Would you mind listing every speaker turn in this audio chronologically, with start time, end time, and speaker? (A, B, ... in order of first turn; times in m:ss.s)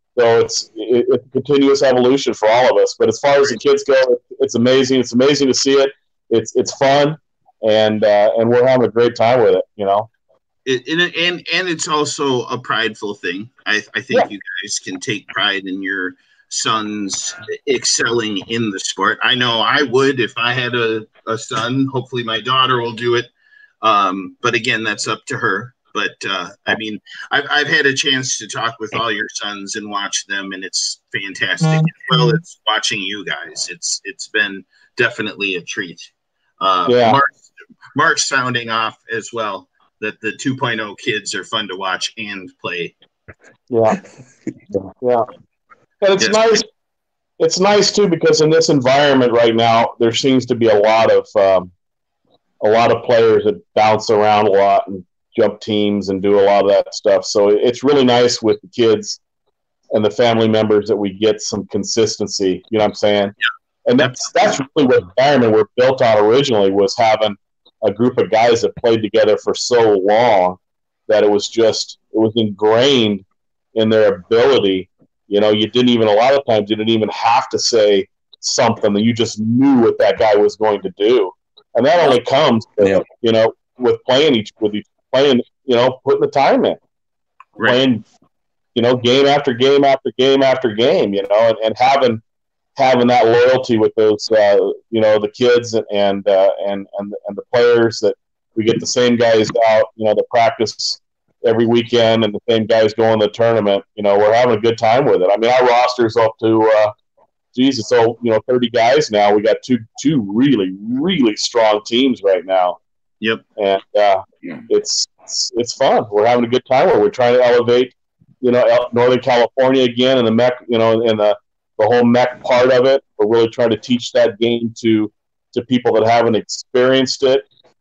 0:00.2-0:10.1 A
0:10.7-0:23.3 B
0:23.8-0:43.0 B
0:36.9-0:37.2 A
0:43.7-0:44.0 A
0:45.0-0:45.3 A
0:46.0-0:46.7 A
0:46.2-0:46.6 B
0:47.4-0:51.7 A
0:52.6-0:59.2 A
0:59.9-1:03.4 A
1:03.9-1:13.2 A
1:04.0-1:04.6 B
1:13.8-1:26.8 A
1:27.6-1:28.0 A
1:28.8-1:32.2 A
1:32.8-1:46.9 A
1:47.6-1:52.8 A
1:53.6-2:07.4 A